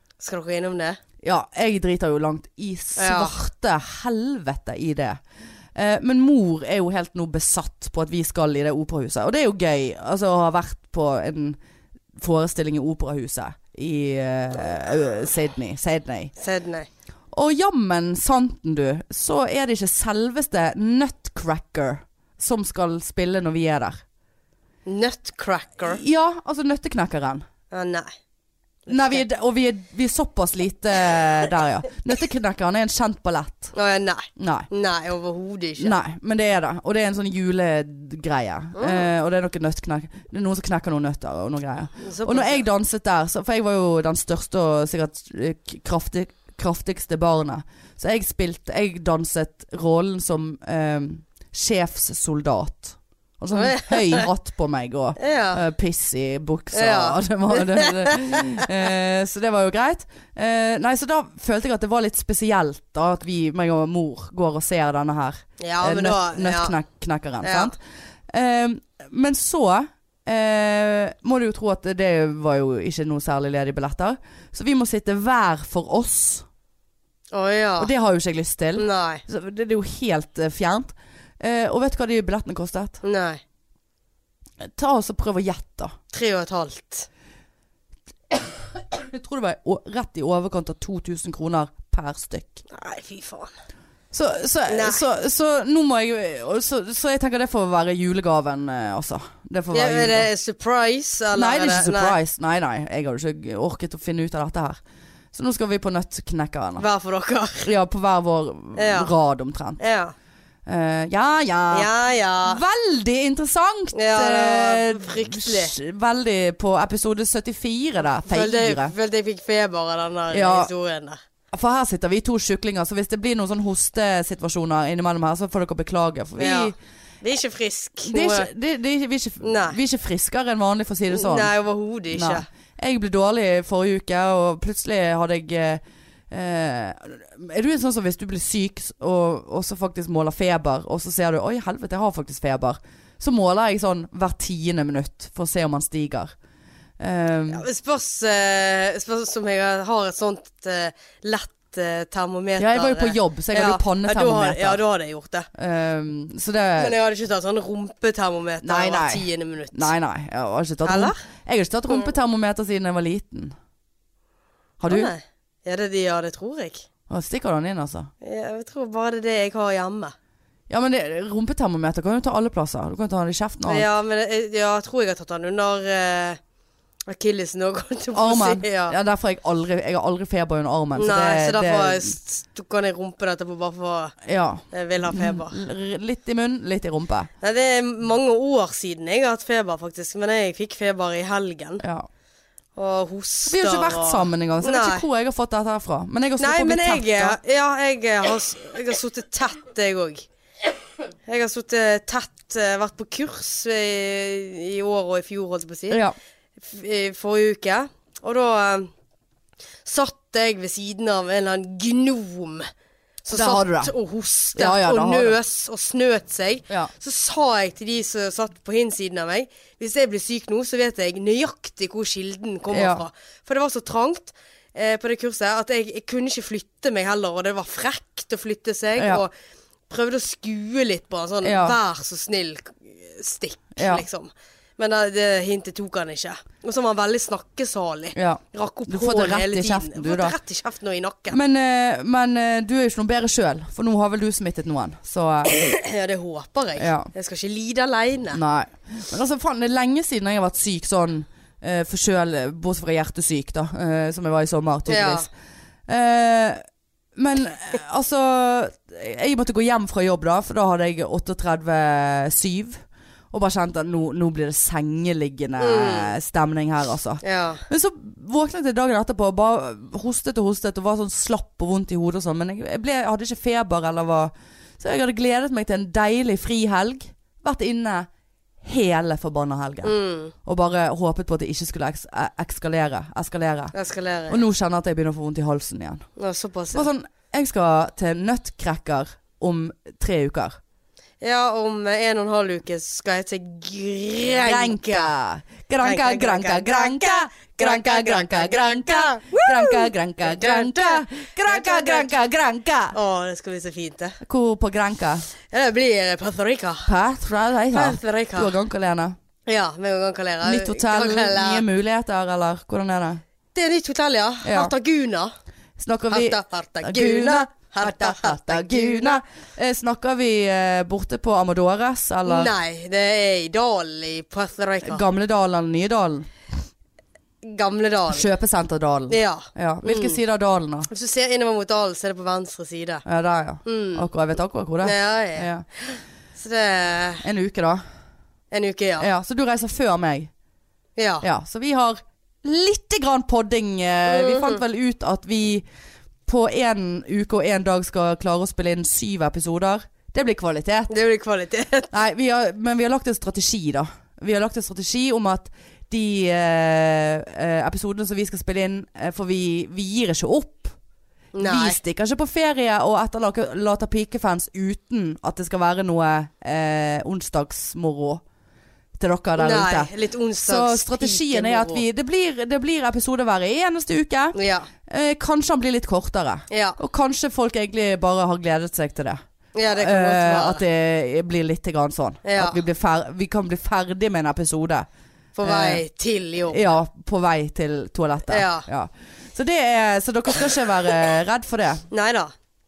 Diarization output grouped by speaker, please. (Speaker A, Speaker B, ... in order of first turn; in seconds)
Speaker A: 0.2-1.0, 3.0-3.4, 16.4-16.9, 24.9-26.0, 27.7-28.1, 28.9-29.2, 33.7-36.0, 38.8-39.1, 42.0-42.7, 53.5-54.3, 55.2-55.6, 56.7-58.6, 65.6-66.8, 67.4-67.7, 77.3-77.9, 78.8-79.2, 83.0-83.4, 86.1-87.1, 92.7-93.5, 94.7-95.1, 99.7-102.2, 106.8-107.7, 108.8-109.1, 109.8-110.1, 111.7-112.6, 113.9-115.8, 118.2-121.2, 126.4-128.5, 129.4-129.8, 131.1-132.5, 147.5-155.5, 156.8-159.9, 160.8-161.2, 164.9-166.9, 168.2-170.2, 173.7-176.4, 177.1-179.0, 181.0-184.2, 184.7-185.6, 187.4-191.8, 192.8-195.1, 196.4-200.3, 201.3-206.0, 206.6-208.9, 209.8-212.7, 213.2-229.3, 229.9-241.4, 245.5-248.4, 254.9-255.3, 265.6-266.1, 267.2-267.6, 279.8-280.3, 283.7-284.4, 286.2-286.9, 291.2-295.1, 295.8-302.1, 302.9-304.2, 305.5-306.9, 307.7-308.5, 309.5-311.7, 313.6-315.3, 316.1-319.2, 322.3-325.1, 327.4-328.3, 329.1-330.2, 330.9-333.0, 333.6-334.1, 334.8-337.2, 338.5-339.1, 341.0-341.2, 344.1-344.6, 350.9-351.9, 361.3-361.8, 369.4-371.8, 374.4-374.7, 376.5-376.8, 379.6-380.6, 382.2-382.6, 385.4-386.6, 388.3-388.7, 391.9-392.3
Speaker B: 1.2-5.2, 5.8-11.6, 12.2-16.3, 17.3-24.0, 25.9-27.4, 28.9-33.7, 34.4-34.7, 35.8-67.8, 68.3-76.5, 77.8-83.0, 84.6-86.0, 88.3-92.6, 94.1-100.3, 101.3-104.8, 105.3-106.9, 107.6-109.8, 110.7-111.9, 112.4-118.9, 120.3-120.7, 121.5-126.8, 128.1-131.5, 132.1-146.3, 147.0-147.7, 152.6-154.8, 155.6-156.9, 158.6-163.6, 164.8-165.1, 167.1-168.1, 170.7-173.9, 178.2-182.2, 184.2-187.3, 191.8-192.1, 193.5-197.4, 205.9-206.2, 213.3-213.9, 214.6-215.4, 222.7-223.0, 229.0-229.2, 231.4-231.8, 233.8-234.0, 238.1-240.3, 241.3-245.6, 246.8-247.1, 248.3-255.3, 255.9-256.6, 257.2-278.1, 278.6-283.7, 284.3-286.1, 286.7-290.6, 294.4-303.0, 304.2-305.3, 306.9-309.2, 310.4-313.2, 314.4-314.7, 315.8-322.5, 324.8-326.3, 328.1-330.9, 333.1-335.6, 337.2-337.8, 339.0-340.3, 341.2-345.6, 346.3-350.9, 351.9-360.8, 361.4-368.2, 369.0-369.9, 370.4-374.4, 374.9-379.2, 379.7-384.9, 385.4-385.8, 386.5-391.9